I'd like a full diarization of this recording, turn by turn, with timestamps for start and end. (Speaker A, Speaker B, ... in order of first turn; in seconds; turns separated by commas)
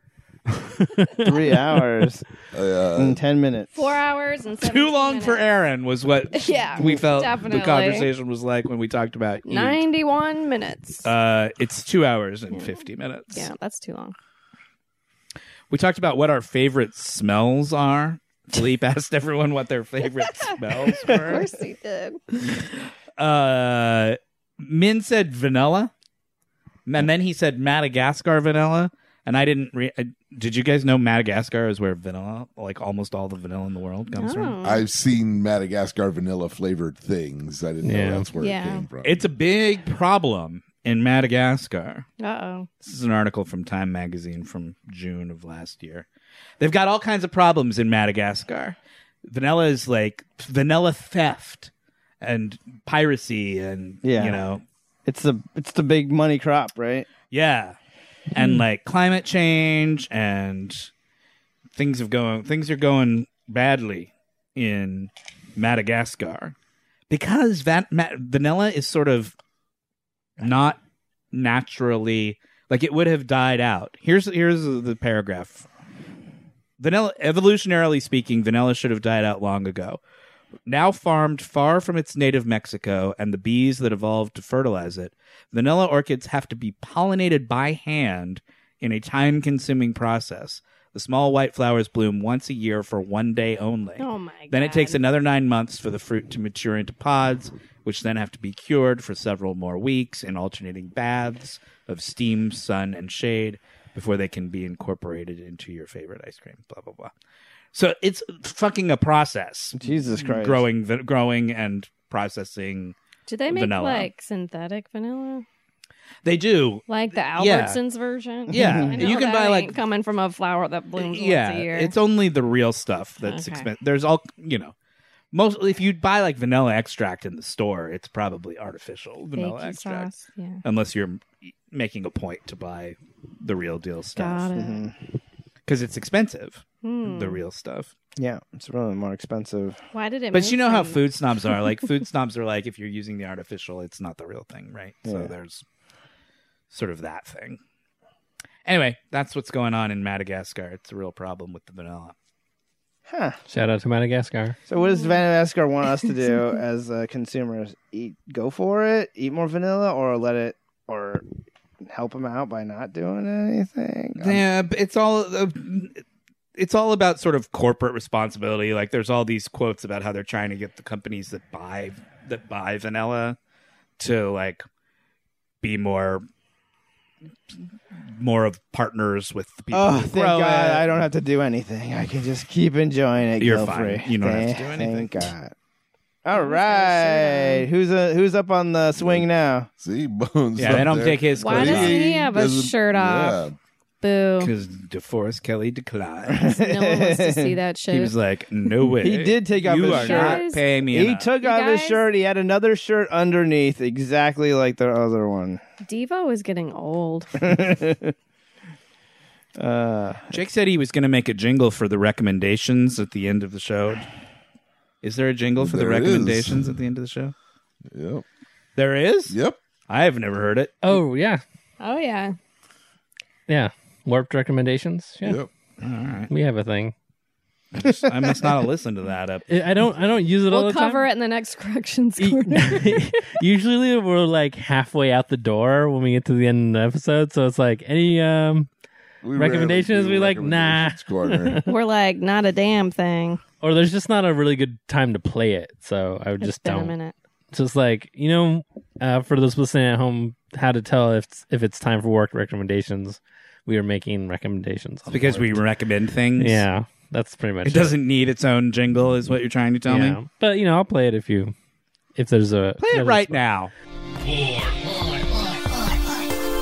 Speaker A: 0.9-1.3, Speaker B: 1.2-2.2, Speaker C: 2.5-3.2, Speaker B: 3.0-3.8, Speaker D: 3.7-5.4, Speaker E: 4.6-9.8, Speaker D: 6.3-8.1, Speaker D: 9.5-11.1, Speaker E: 11.0-13.5, Speaker D: 12.5-12.8, Speaker D: 13.3-14.2, Speaker E: 15.7-21.5, Speaker D: 20.2-22.4, Speaker E: 23.2-25.9, Speaker E: 26.9-34.6, Speaker D: 34.2-34.8, Speaker C: 34.6-39.2, Speaker A: 37.8-38.3, Speaker D: 38.4-38.8, Speaker E: 39.0-42.1, Speaker D: 42.2-42.7, Speaker E: 42.8-46.1, Speaker E: 46.6-54.6, Speaker B: 54.0-54.4, Speaker B: 55.1-57.1, Speaker E: 57.3-57.8, Speaker A: 58.3-58.6, Speaker E: 58.3-60.9, Speaker E: 61.8-66.5, Speaker E: 67.1-69.3, Speaker E: 70.4-70.8, Speaker E: 71.3-75.7, Speaker E: 76.8-80.0, Speaker E: 80.7-107.1, Speaker D: 94.0-95.0, Speaker E: 107.7-113.0, Speaker B: 109.8-110.6, Speaker D: 113.3-115.5, Speaker E: 113.5-114.1, Speaker E: 116.2-117.8, Speaker D: 116.9-121.9, Speaker B: 118.5-119.1, Speaker E: 118.5-119.8, Speaker E: 121.0-124.7, Speaker D: 123.2-123.7, Speaker E: 125.3-130.1, Speaker D: 129.3-130.6, Speaker E: 130.6-134.5, Speaker D: 134.2-134.9, Speaker B: 134.6-134.9, Speaker E: 135.7-137.9, Speaker D: 136.8-137.4, Speaker B: 138.2-139.8, Speaker D: 139.9-141.7, Speaker E: 140.3-145.6, Speaker B: 145.1-145.3, Speaker E: 146.7-147.6, Speaker E: 148.7-152.2, Speaker B: 153.1-153.4, Speaker A: 153.5-154.6, Speaker B: 154.7-161.2, Speaker D: 154.8-155.2, Speaker B: 161.8-164.4, Speaker E: 164.2-166.0, Speaker E: 166.6-173.4, Speaker E: 174.0-174.7, Speaker E: 175.6-176.2, Speaker E: 178.1-181.0, Speaker B: 179.7-185.5, Speaker E: 183.4-185.3, Speaker B: 186.2-189.7, Speaker D: 186.3-187.7, Speaker C: 189.0-193.6, Speaker E: 190.6-192.0, Speaker D: 191.4-193.4, Speaker D: 194.0-194.5, Speaker E: 194.4-196.4, Speaker B: 196.3-197.6, Speaker D: 196.5-198.1, Speaker E: 197.9-201.3, Speaker B: 199.0-205.6, Speaker D: 199.8-200.6, Speaker D: 201.4-202.0, Speaker D: 205.8-207.5, Speaker B: 207.4-208.1, Speaker B: 209.6-210.4, Speaker E: 210.3-214.1, Speaker E: 215.0-217.3, Speaker C: 215.6-216.7, Speaker C: 217.9-218.2, Speaker E: 218.8-219.4, Speaker C: 219.3-219.6, Speaker E: 219.9-220.8, Speaker A: 220.8-221.4, Speaker D: 221.8-222.4, Speaker A: 223.5-225.4, Speaker C: 225.2-225.5, Speaker E: 225.8-226.3, Speaker A: 226.3-226.9, Speaker E: 227.7-229.5, Speaker A: 229.5-231.1, Speaker D: 230.5-233.4, Speaker B: 232.4-232.7, Speaker A: 232.5-238.7, Speaker C: 239.2-241.6, Speaker A: 239.3-241.7, Speaker D: 241.7-243.4, Speaker A: 243.6-247.0, Speaker D: 246.4-247.2, Speaker A: 247.5-255.6, Speaker E: 255.1-256.7, Speaker A: 256.4-258.0, Speaker E: 257.6-260.2, Speaker A: 259.9-261.6, Speaker A: 262.1-263.4, Speaker E: 262.8-263.7